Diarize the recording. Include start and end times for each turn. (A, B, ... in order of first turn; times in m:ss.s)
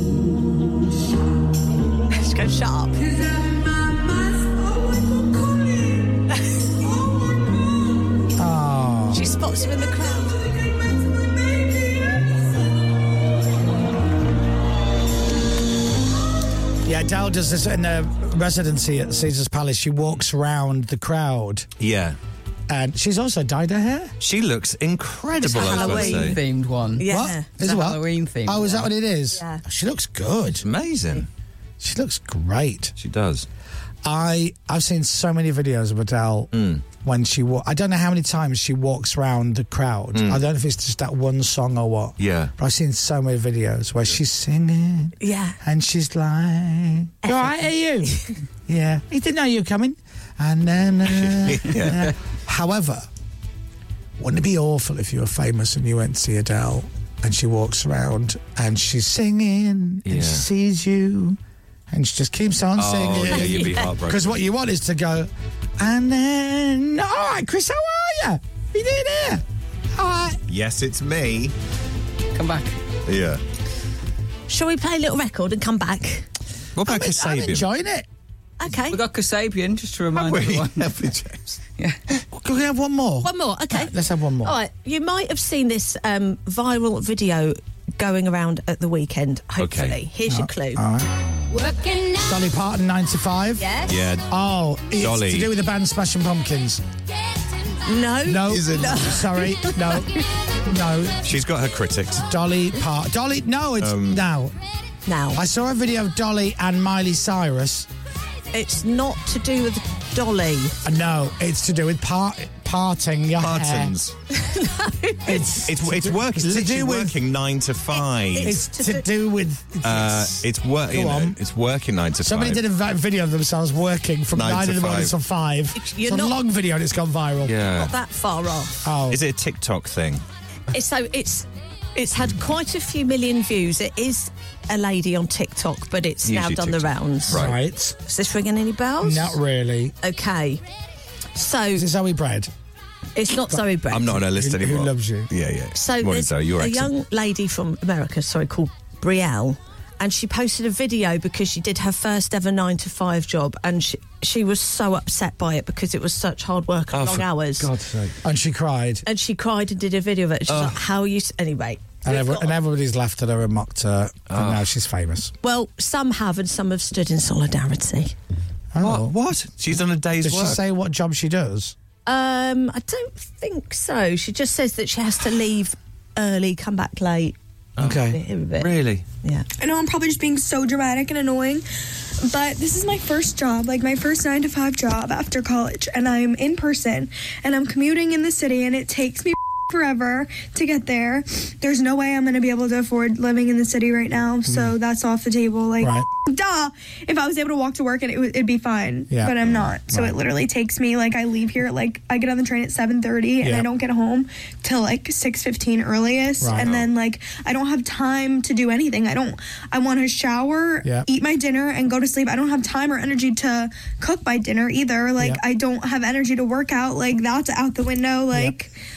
0:02.1-0:03.1 A
0:08.4-0:09.3 B
0:09.1-0:10.5 A
0:16.8-0:21.7 B
0:21.8-0:22.2 C
0:22.7-0:24.1 B
0:24.2-0:26.4 C
0:25.4-0:26.4 A
0:25.7-0:27.1 D
0:27.0-0:27.5 A
0:27.0-0:30.6 B
0:27.6-0:28.9 D
0:29.4-0:29.6 A
0:30.6-0:31.3 C
0:31.8-0:32.9 B
0:33.0-0:33.5 C
0:34.0-0:53.1 B
0:36.5-0:36.8 C
0:40.1-0:40.4 C
0:42.2-0:42.5 C
0:45.2-0:45.6 A
0:47.2-0:47.5 A
0:51.2-0:52.1 C
0:54.2-1:01.4 B
1:00.0-1:00.4 C
1:01.9-1:09.4 B
1:02.8-1:04.4 C
1:03.3-1:03.9 A
1:09.9-1:10.4 B
1:10.5-1:11.5 C
1:12.4-1:12.8 D
1:13.0-1:13.4 C
1:14.5-1:16.3 A
1:16.8-1:17.6 C
1:16.8-1:18.1 B
1:18.6-1:19.0 A
1:18.9-1:20.9 D
1:20.1-1:21.6 C
1:22.3-1:24.6 B
1:23.2-1:30.8 A
1:29.6-1:30.0 C
1:30.3-1:31.1 B
1:31.7-1:32.1 A
1:32.2-1:33.7 B
1:33.6-1:34.0 A
1:33.9-1:34.3 C
1:34.3-1:36.8 B
1:35.0-1:35.5 C
1:37.8-1:40.2 A
1:38.2-1:41.3 B
1:38.5-1:39.1 C
1:41.2-1:42.2 C
1:42.2-1:44.6 B
1:43.8-1:44.2 C
1:45.0-1:45.4 A
1:45.3-1:47.9 B
1:48.5-1:50.8 A
1:50.8-1:53.9 B
1:53.4-1:54.1 C
1:54.3-1:55.6 A
1:55.2-1:57.2 B
1:55.6-1:58.6 C
1:57.9-1:59.0 A
1:58.4-2:01.4 B
1:59.8-2:02.6 C
2:02.2-2:07.6 B
2:04.3-2:05.1 C
2:05.8-2:06.4 A
2:07.4-2:07.9 C
2:07.8-2:08.7 A
2:08.8-2:09.2 B
2:09.1-2:10.2 C
2:10.7-2:17.5 A
2:16.3-2:17.6 C
2:17.3-2:18.0 B
2:18.0-2:19.4 A
2:19.0-2:19.9 B
2:20.0-2:20.6 A
2:21.4-2:21.8 A
2:21.7-2:22.5 B
2:23.1-2:24.2 A
2:23.9-2:26.9 C
2:24.1-2:25.3 B
2:25.7-2:37.7 A
2:36.9-2:38.1 C
2:38.2-2:39.0 B
2:39.0-2:42.5 A
2:40.5-2:40.8 C
2:42.0-2:45.3 B
2:44.3-2:44.7 C
2:45.4-2:48.1 A
2:48.7-2:49.1 B
2:48.8-2:50.6 C
2:50.2-2:51.7 B
2:52.0-2:57.4 A
2:57.8-2:59.0 C
2:57.8-2:58.2 B
2:57.9-2:58.7 A
2:59.6-3:01.6 E
3:02.2-3:38.7 E
3:14.5-3:14.8 B
3:15.8-3:16.1 B
3:19.1-3:20.2 B
3:19.4-3:19.7 C
3:23.4-3:23.7 B
3:26.4-3:26.7 B
3:26.6-3:26.9 C